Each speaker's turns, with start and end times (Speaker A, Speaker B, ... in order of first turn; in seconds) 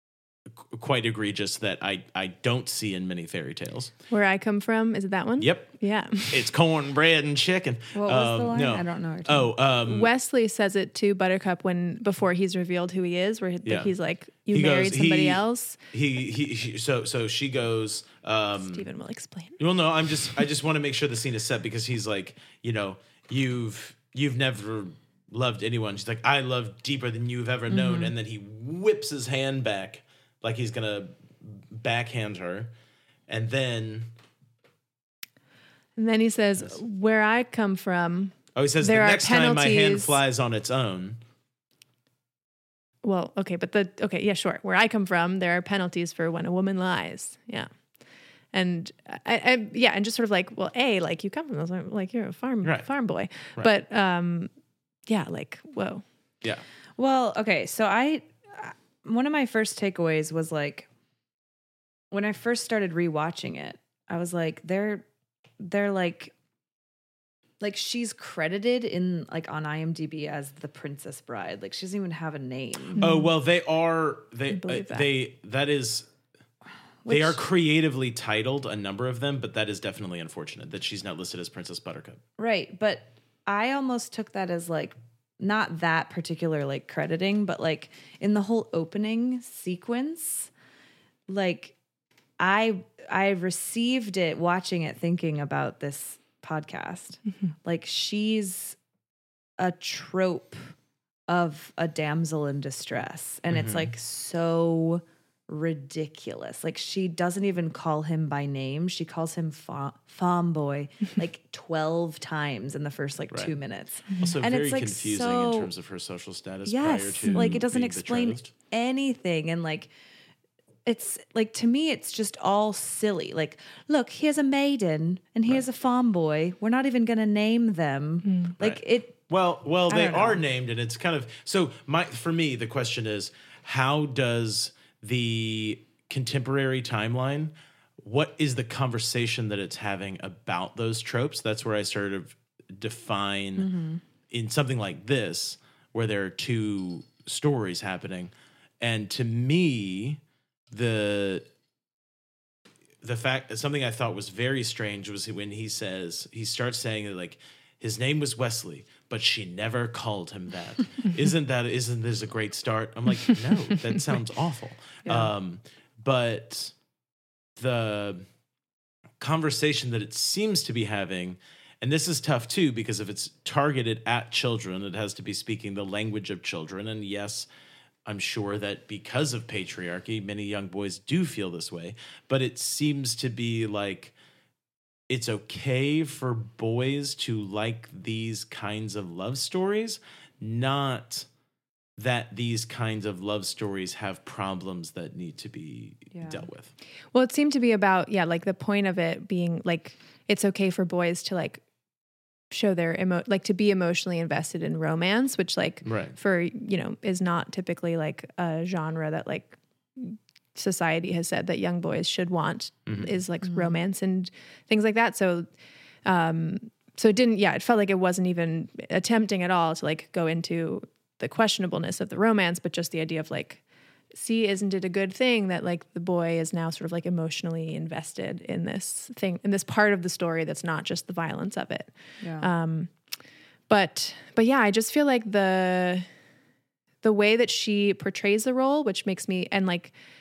Speaker A: 0.5-3.9, 5.4-5.7, 6.3-10.1, 13.6-13.9, 14.5-15.4, 15.9-18.9, 19.6-32.7, 33.3-34.1, 38.5-41.2, 52.6-52.9, 73.0-76.1, 77.1-82.2, 103.5-103.9, 114.2-118.5, 128.6-143.7, 144.3-151.4, 153.0-166.7, 167.6-168.2, 169.2-177.5, 178.1-184.1, 185.1-191.3, 192.0-196.7, 205.8-206.1, 212.9-213.1
Speaker B: 4.1-6.5, 9.8-15.8, 18.6-19.6, 36.0-40.2, 43.0-47.7, 48.5-54.5, 55.1-56.0, 73.0-73.3, 74.5-75.0, 128.2-128.5, 197.1-201.6, 202.5-215.5, 216.0-232.9, 233.7-236.1, 237.0-239.9
Speaker C: 7.9-9.5, 27.7-28.1, 57.0-60.9, 62.1-65.0, 65.6-66.3, 67.6-73.0, 77.0-77.4, 82.4-90.5, 91.3-91.7, 92.4-98.8, 99.6-100.7, 101.3-115.7, 116.7-119.9, 120.8-129.2, 129.9-130.4, 143.6-144.0, 196.1-196.5, 213.4-213.7, 232.2-232.5